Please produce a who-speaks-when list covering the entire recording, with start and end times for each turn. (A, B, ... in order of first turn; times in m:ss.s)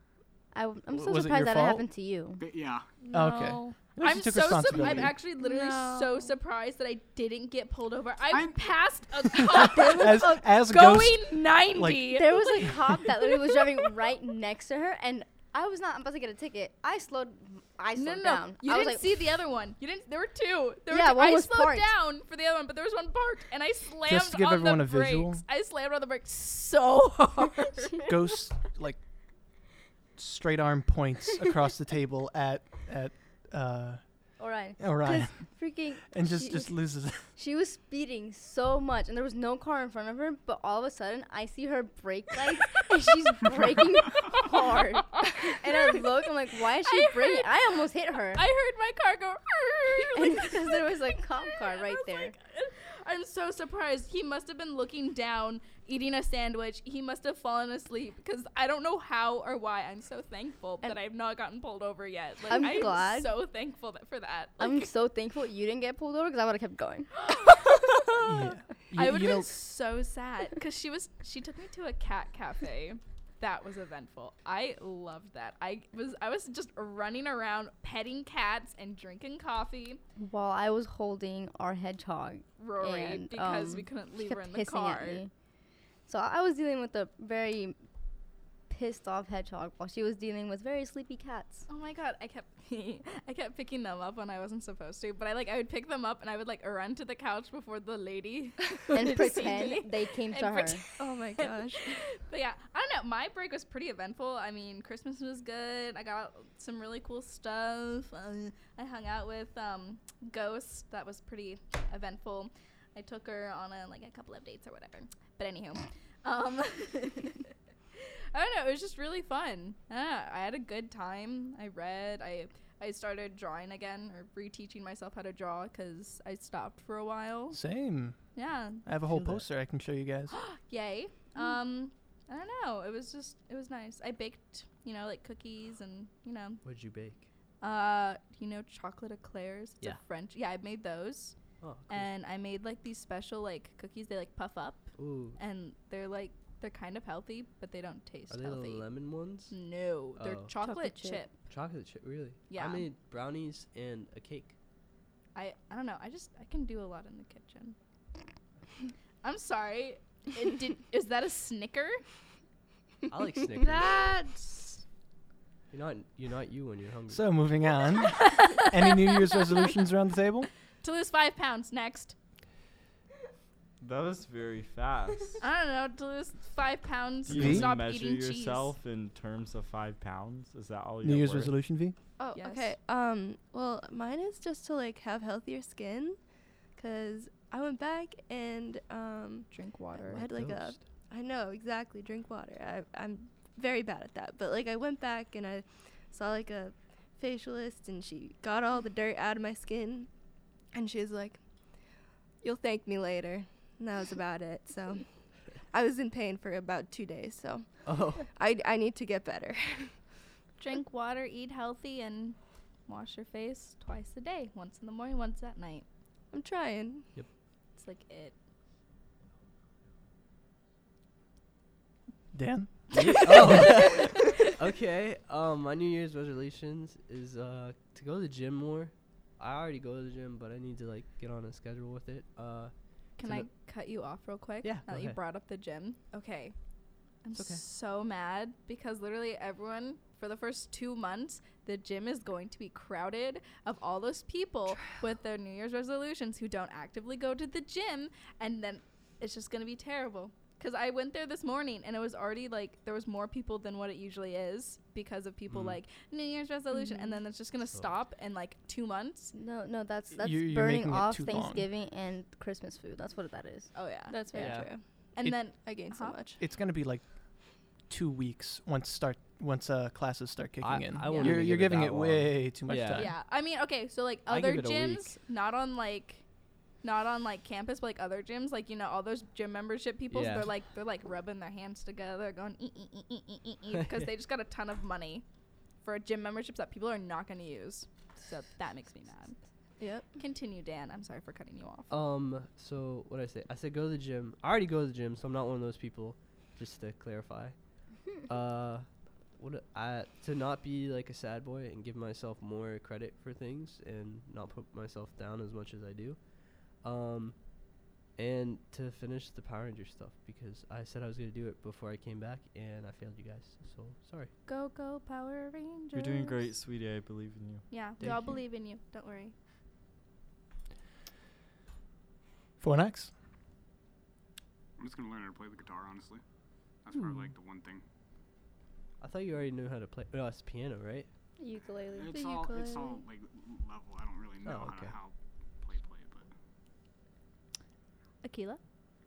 0:00.5-0:02.4 A
0:00.9-0:01.8 B
0:02.4-0:02.8 C
0:03.0-0:03.8 D
0:03.1-0:05.1 B
0:04.0-0:13.9 E
0:05.2-0:06.3 D
0:08.3-0:08.7 C
0:09.8-0:12.7 B
0:12.1-0:19.3 A
0:17.9-0:28.0 E
0:20.9-0:21.9 A
0:24.0-0:25.4 B
0:28.1-0:29.0 B
0:30.2-0:34.0 B
0:34.4-0:48.4 A
0:34.8-0:37.3 B
0:46.8-0:47.5 E
0:48.3-1:04.9 E
0:50.1-0:52.3 A
1:02.5-1:03.4 A
1:04.6-1:07.1 A
1:07.2-1:20.0 E
1:08.2-1:09.5 B
1:20.2-1:25.3 A
1:22.6-1:25.2 E
1:26.1-1:27.8 A
1:28.7-1:31.7 A
1:31.7-2:07.6 E
1:38.9-1:40.8 A
1:41.0-1:42.0 F
2:07.5-2:08.2 B
2:08.3-2:08.8 E
2:08.8-2:10.3 B
2:09.1-2:09.4 G
2:10.3-2:16.6 E
2:16.6-2:17.3 G
2:17.6-2:21.4 E
2:21.6-2:22.1 G
2:21.9-2:28.9 E
2:25.0-2:25.4 G
2:28.3-2:29.5 G
2:29.5-2:31.3 E
2:30.2-2:30.5 G
2:30.6-2:31.3 A
2:31.4-2:34.5 G
2:32.5-2:32.9 E
2:35.3-2:37.8 E
2:39.2-2:42.0 E
2:43.1-2:44.1 G
2:43.6-2:44.8 D
2:45.7-2:47.4 G
2:47.1-2:50.5 B
2:50.8-2:52.1 E
2:53.8-2:55.4 H
2:55.4-2:58.7 E
2:57.2-3:01.5 H
2:57.3-2:57.7 B
3:01.0-3:02.0 B
3:02.2-3:06.2 F
3:02.3-3:02.7 E
3:06.7-3:20.1 F
3:09.5-3:10.2 E
3:10.1-3:10.8 G
3:20.7-3:30.1 F
3:27.8-3:28.3 G
3:30.6-3:35.8 E
3:36.3-3:37.1 F
3:37.8-3:38.3 E
3:42.3-3:43.8 B
3:42.9-3:53.5 G
3:53.2-3:56.5 E
3:54.6-3:55.2 G
3:57.2-4:19.3 E
3:57.3-3:57.6 G
4:19.3-4:23.7 A
4:20.2-4:21.7 B
4:23.7-4:24.4 E
4:24.1-4:26.4 F
4:24.3-4:24.7 G
4:25.1-4:26.2 E
4:26.4-4:27.0 B
4:27.8-4:33.1 B
4:30.6-4:33.2 G
4:31.0-4:31.5 E
4:32.9-4:36.2 E
4:34.3-4:35.2 G
4:36.8-4:45.2 E
4:40.1-4:40.5 G
4:43.7-4:44.1 G
4:45.8-4:49.4 E
4:49.8-4:50.1 F
4:50.1-4:51.9 E
4:51.9-4:57.6 G
4:58.3-5:06.2 G
5:06.7-5:07.4 G
5:08.1-5:14.3 G
5:14.4-5:16.5 E
5:15.9-5:17.7 H
5:17.7-5:19.3 E
5:22.6-5:23.1 B
5:24.8-5:26.2 C
5:26.8-5:27.8 C
5:29.0-5:31.1 G
5:31.4-5:33.0 A
5:31.9-5:36.3 C
5:34.4-5:34.9 G
5:38.2-5:38.6 E